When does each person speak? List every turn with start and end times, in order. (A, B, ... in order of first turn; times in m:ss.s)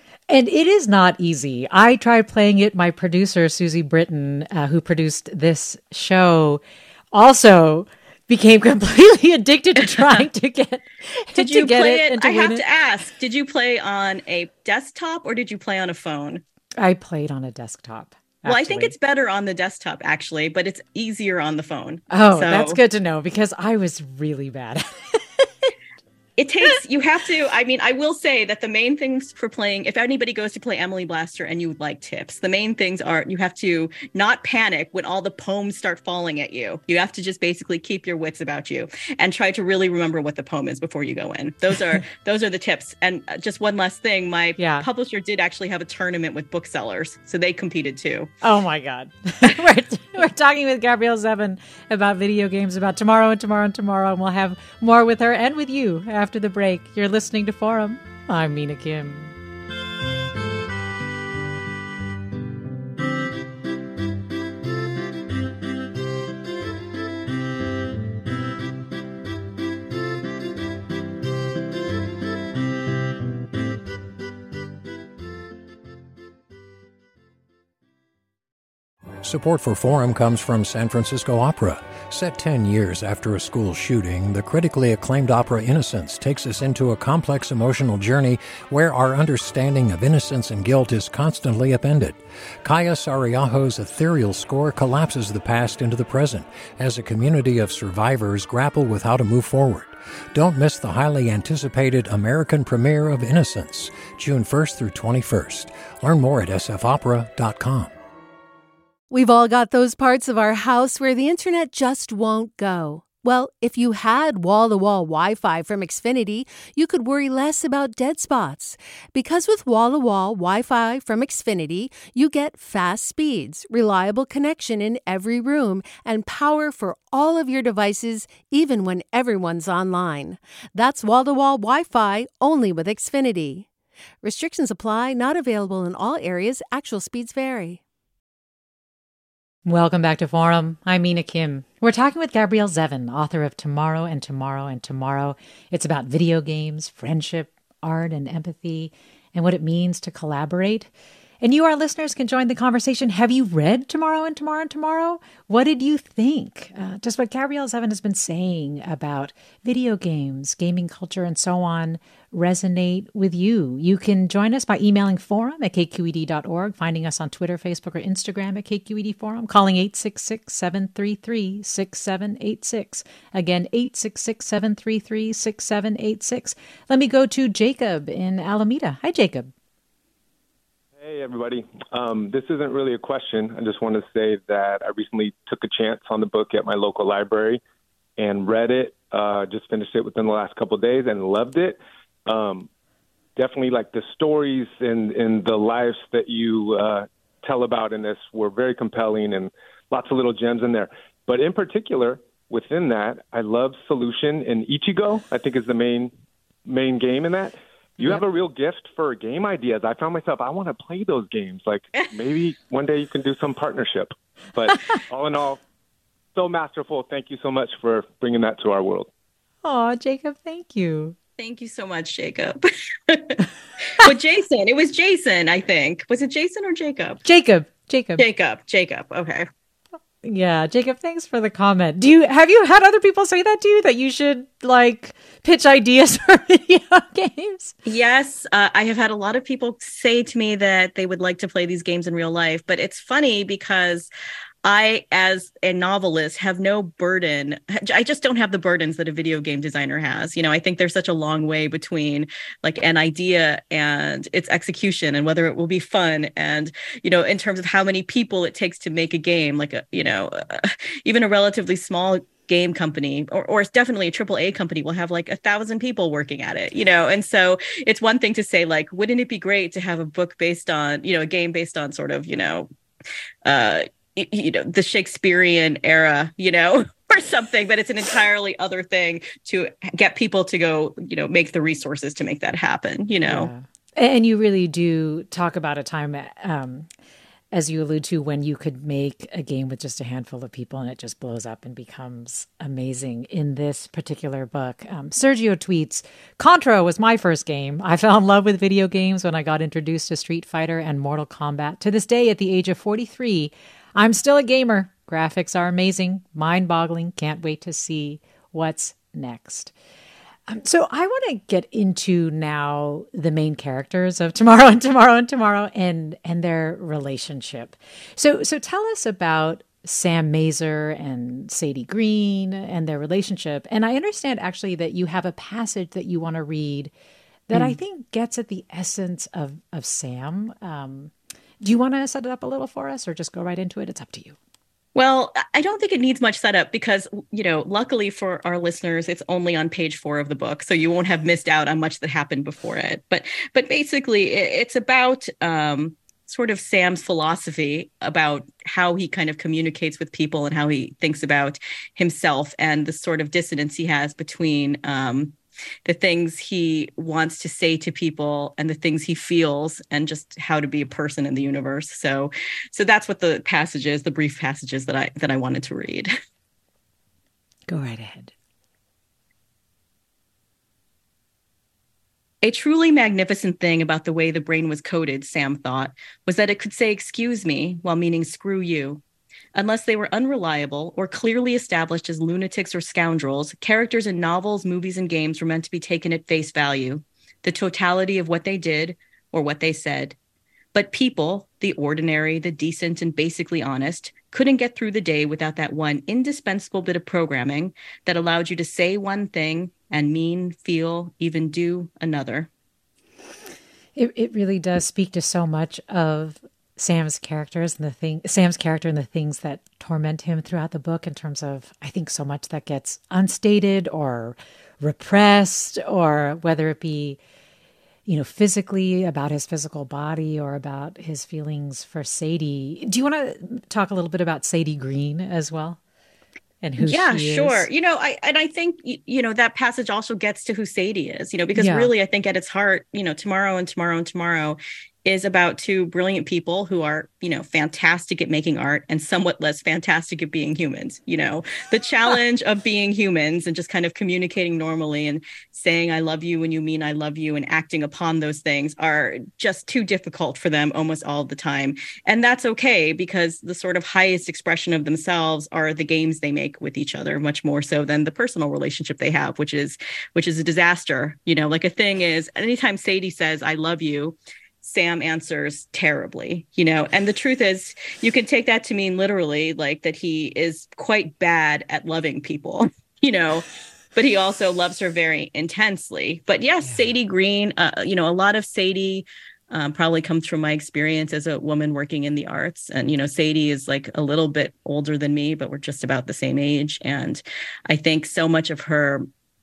0:00.3-0:12.6 A
0:10.0-0:10.2 B
0:11.4-0:16.4 B
0:16.8-0:18.9 A
0:18.4-0:22.8 B
0:22.1-0:25.7 A
0:26.4-0:48.3 B
0:44.6-0:44.9 A
0:48.4-0:59.3 A
1:19.2-1:47.9 C
1:49.1-2:13.7 D
2:14.2-2:17.8 D
2:19.6-2:30.9 A
2:31.4-2:59.5 A
3:01.0-3:07.6 E
3:08.2-3:12.7 E
3:13.4-3:26.1 E
3:26.7-3:35.6 E
3:36.4-3:39.1 E
3:39.6-3:41.2 A
3:41.4-3:43.4 B
3:44.0-3:47.2 B
3:47.2-3:48.2 A
3:48.2-3:49.5 B
3:50.2-3:57.7 A
3:57.9-4:04.1 B
4:04.6-4:32.7 B
4:33.4-4:43.5 B
4:43.3-4:46.9 A
4:47.5-5:09.7 A
5:10.5-5:26.9 A
5:27.5-5:34.4 A
5:35.0-5:55.3 B
5:55.9-6:06.1 B
6:07.7-6:08.3 A
6:12.4-6:19.0 B
6:19.6-6:30.2 B
6:30.8-6:42.5 B
6:44.0-6:57.2 A
6:58.1-7:05.8 A
7:06.6-7:07.7 A
7:06.8-8:09.1 B
7:11.6-7:11.9 A